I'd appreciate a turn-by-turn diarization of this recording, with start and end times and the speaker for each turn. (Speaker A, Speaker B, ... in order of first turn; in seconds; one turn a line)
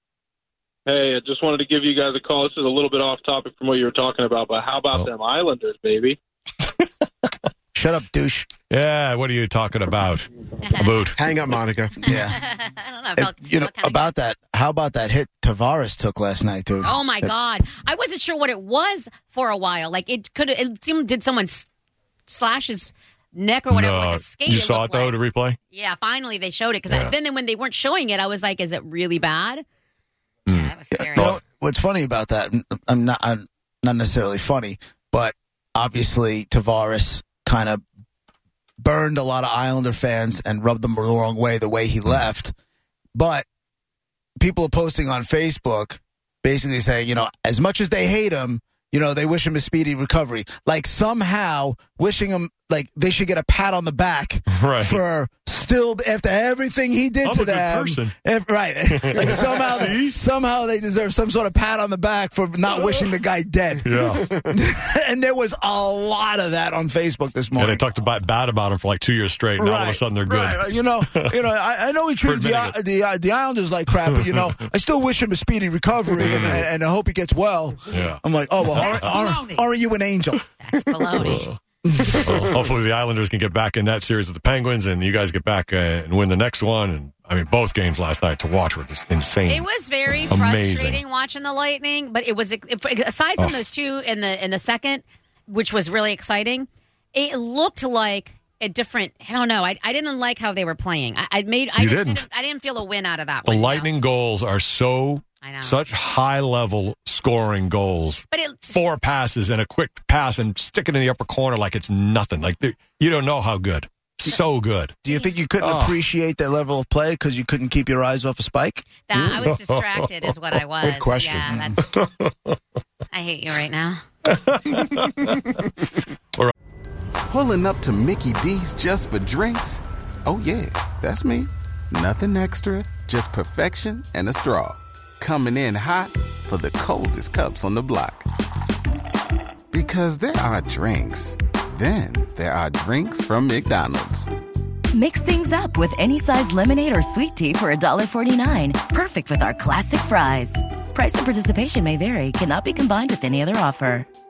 Speaker A: 0.8-6.2
Speaker B: 7.7-8.5
Speaker C: 8.7-11.2
Speaker D: 10.6-11.0
Speaker E: 11.1-12.0
Speaker B: 12.0-12.4
Speaker D: 12.0-14.1
Speaker B: 13.2-17.3
Speaker D: 16.8-21.7
Speaker D: 22.3-29.6
Speaker C: 23.7-25.6
Speaker C: 26.9-27.1
Speaker C: 30.5-31.4
Speaker D: 30.5-31.3
Speaker B: 30.9-37.8
Speaker B: 38.8-42.5
Speaker B: 43.1-43.4
Speaker B: 44.4-67.8
Speaker C: 54.5-55.0
Speaker C: 57.2-58.1
Speaker C: 58.9-60.2
Speaker C: 63.8-64.3
Speaker E: 64.1-64.4
Speaker C: 67.5-71.3
Speaker B: 69.6-80.4
Speaker C: 72.2-72.8
Speaker C: 74.0-74.4
Speaker C: 76.2-76.6
Speaker C: 77.9-78.2
Speaker C: 78.7-79.4
Speaker D: 80.6-81.5
Speaker C: 81.2-89.7
Speaker B: 81.9-82.4
Speaker D: 89.5-103.9
Speaker C: 90.3-91.0
Speaker C: 101.8-102.2
Speaker C: 103.4-114.9
Speaker D: 105.4-105.8
Speaker D: 108.3-108.7
Speaker B: 115.0-118.8
Speaker C: 115.6-116.0
Speaker D: 119.1-121.8
Speaker E: 119.2-119.5
Speaker C: 119.2-120.3
Speaker E: 120.8-121.7
Speaker C: 121.9-122.3
Speaker D: 123.1-124.0
Speaker C: 124.3-125.6
Speaker F: 127.3-138.2
Speaker F: 139.7-144.3
Speaker G: 144.9-154.1